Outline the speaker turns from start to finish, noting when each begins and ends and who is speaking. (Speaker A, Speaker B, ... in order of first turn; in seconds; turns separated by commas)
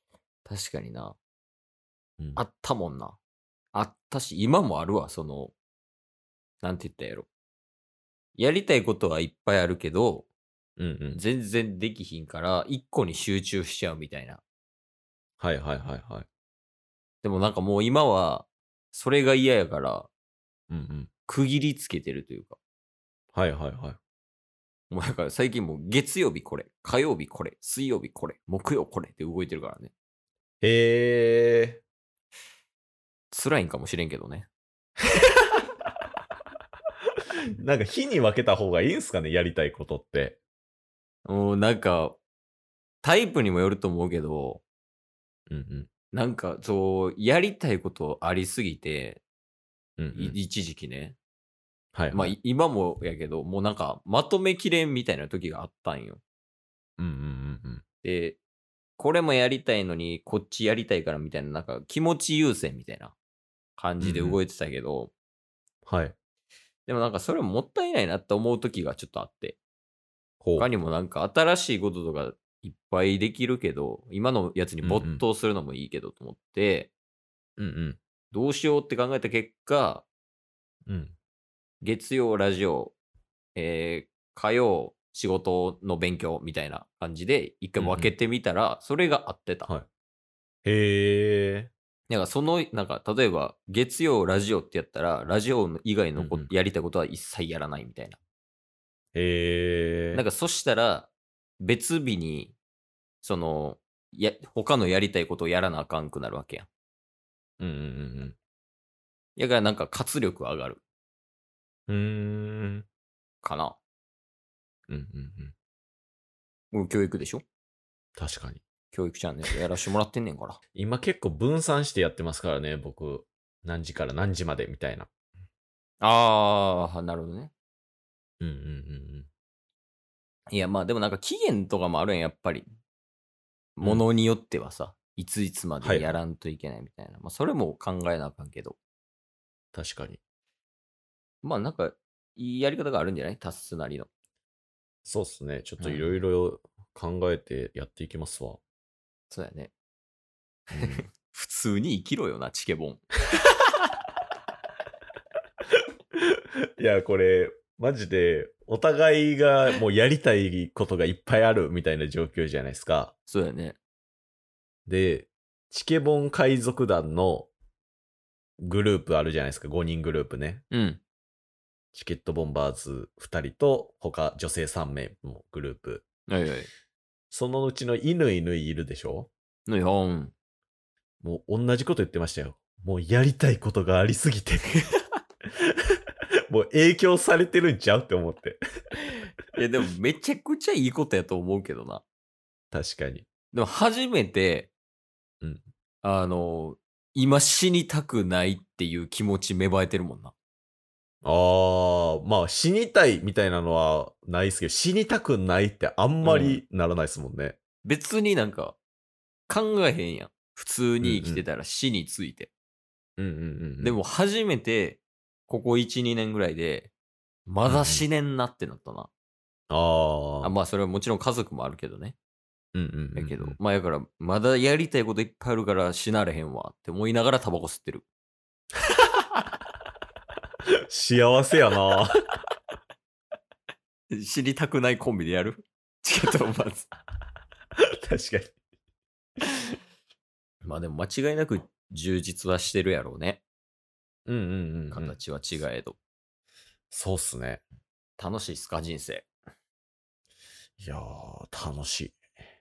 Speaker A: 0.4-1.1, Speaker A: 2.4-3.2, Speaker A: 3.7-5.5, Speaker A: 6.6-7.3, Speaker A: 8.3-10.3, Speaker B: 10.8-11.2, Speaker A: 11.1-14.4, Speaker B: 15.4-16.3, Speaker A: 17.2-20.1, Speaker B: 20.7-21.1, Speaker A: 21.3-22.6, Speaker B: 23.3-24.0, Speaker A: 24.9-29.9, Speaker B: 30.6-31.8, Speaker A: 33.3-34.5, Speaker B: 37.6-40.4, Speaker A: 41.2-42.2, Speaker A: 43.0-44.6, Speaker B: 45.5-45.9, Speaker A: 46.1-49.2, Speaker B: 50.0-50.4, Speaker A: 50.1-51.1, Speaker B: 51.9-52.3, Speaker A: 52.1-56.2, Speaker B: 57.0-57.8, Speaker A: 58.0-58.4, Speaker A: 59.0-63.1, Speaker A: 63.8-65.1, Speaker B: 64.0-64.4, Speaker B: 65.8-66.1, Speaker A: 66.9-69.6, Speaker B: 70.4-70.7, Speaker A: 70.6-76.9, Speaker B: 74.8-75.2, Speaker B: 77.6-78.0, Speaker A: 78.3-80.0, Speaker B: 80.9-81.1, Speaker A: 81.8-82.9, Speaker A: 83.5-89.7, Speaker B: 87.8-88.1, Speaker B: 90.6-91.7, Speaker A: 92.1-98.2, Speaker B: 96.2-96.5, Speaker B: 99.1-100.2, Speaker A: 100.1-102.5, Speaker A: 103.2-106.7, Speaker B: 107.6-108.3, Speaker A: 109.3-110.8, Speaker B: 111.9-112.8, Speaker A: 113.4-113.8, Speaker B: 114.9-115.5, Speaker A: 116.7-117.4, Speaker B: 118.2-118.6, Speaker A: 118.9-120.6, Speaker B: 120.7-125.1, Speaker A: 126.0-127.5, Speaker B: 128.4-129.3, Speaker A: 130.5-132.7, Speaker A: 133.8-138.8, Speaker B: 135.8-136.1, Speaker B: 139.7-140.2, Speaker A: 141.4-144.1, Speaker B: 145.0-148.6, Speaker A: 145.8-146.2, Speaker A: 149.3-149.7, Speaker B: 150.7-151.0, Speaker A: 150.7-153.0, Speaker B: 156.8-163.1, Speaker A: 163.3-163.8, Speaker B: 164.9-167.5, Speaker B: 168.6-170.6, Speaker A: 170.7-171.0, Speaker B: 171.9-176.1, Speaker A: 176.3-176.7, Speaker B: 177.3-179.3, Speaker A: 179.7-180.3, Speaker B: 181.2-184.8, Speaker B: 186.5-188.6, Speaker A: 189.5-192.0, Speaker B: 192.7-193.3, Speaker A: 193.5-194.7, Speaker A: 196.0-200.3, Speaker B: 201.2-207.6, Speaker A: 206.2-206.6, Speaker A: 207.8-208.8, Speaker A: 209.5-212.5, Speaker B: 211.0-211.4, Speaker B: 213.2-214.0, Speaker A: 213.8-216.9, Speaker A: 217.5-219.1, Speaker B: 217.6-218.0, Speaker B: 219.7-220.5, Speaker A: 220.4-222.2, Speaker B: 222.7-223.6, Speaker A: 223.2-228.0, Speaker B: 230.9-232.1, Speaker A: 234.1-236.9, Speaker B: 238.0-238.6, Speaker A: 240.6-243.4, Speaker B: 244.3-245.2, Speaker A: 244.9-246.0, Speaker B: 246.9-247.6, Speaker A: 248.2-249.3, Speaker B: 250.8-252.2